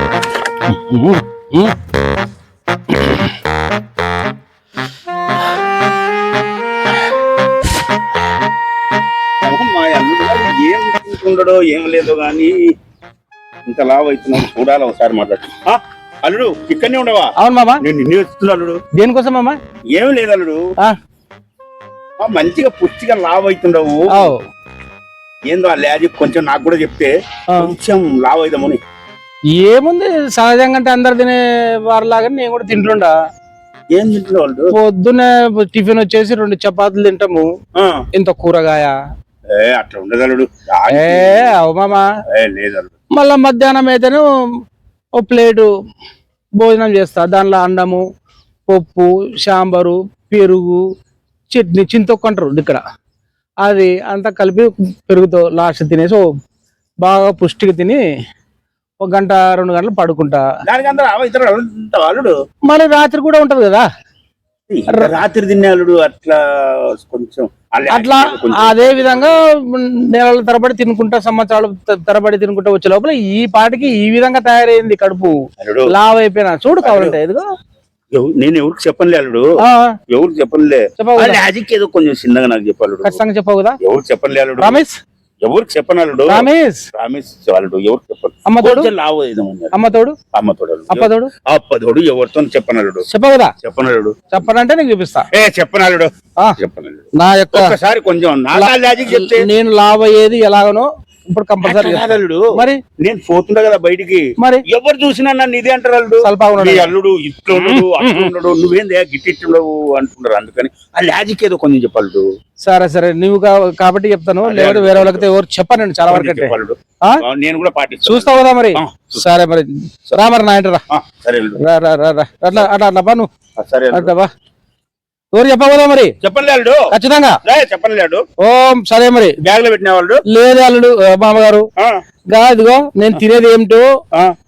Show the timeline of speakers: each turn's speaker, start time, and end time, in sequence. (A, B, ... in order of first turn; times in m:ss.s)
0:00.7-0:01.8 A
0:02.9-0:03.3 A
0:09.4-0:12.6 B
0:13.7-0:18.8 B
0:17.4-0:17.8 A
0:18.9-0:19.6 A
0:19.9-0:20.6 B
0:22.2-0:24.3 B
0:24.1-0:24.4 A
0:25.5-0:28.8 B
0:29.5-0:33.1 A
0:33.9-0:34.7 B
0:34.7-0:37.5 A
0:37.8-0:38.0 B
0:38.1-0:38.9 A
0:39.5-0:41.5 B
0:40.9-0:42.1 A
0:42.3-0:42.9 B
0:43.2-0:44.2 A
0:45.2-0:45.7 A
0:46.6-0:48.0 A
0:48.7-0:50.8 A
0:51.5-0:52.8 A
0:53.6-0:56.2 A
0:57.0-0:58.0 A
0:59.0-1:00.4 A
1:00.6-1:02.3 B
1:02.7-1:03.8 A
1:04.7-1:09.4 B
1:07.9-1:15.3 A
1:15.6-1:15.9 B
1:15.9-1:17.4 A
1:16.8-1:17.2 B
1:18.1-1:19.5 B
1:19.6-1:19.9 A
1:20.1-1:23.2 B
1:21.0-1:21.4 A
1:23.0-1:23.8 A
1:23.8-1:24.8 B
1:24.6-1:25.0 A
1:25.4-1:33.0 B
1:26.3-1:26.8 A
1:28.4-1:28.9 A
1:29.7-1:30.2 A
1:30.9-1:31.3 A
1:33.1-1:33.5 A
1:33.6-1:34.2 B
1:34.3-1:35.3 A
1:35.3-1:39.5 B
1:37.2-1:37.7 A
1:38.5-1:42.8 A
1:41.6-1:42.5 B
1:43.0-1:52.3 B
1:46.2-1:46.9 A
1:47.5-1:48.3 A
1:52.6-1:56.5 A
1:54.4-1:55.3 B
1:56.1-1:59.2 B
1:58.0-2:00.8 A
2:00.9-2:01.6 B
2:01.6-2:03.3 A
2:03.6-2:04.1 B
2:03.9-2:04.3 A
2:05.3-2:06.1 A
2:06.2-2:06.8 B
2:06.9-2:07.4 A
2:07.4-2:08.2 B
2:08.4-2:09.3 A
2:09.4-2:10.2 B
2:10.3-2:11.6 A
2:12.3-2:13.8 A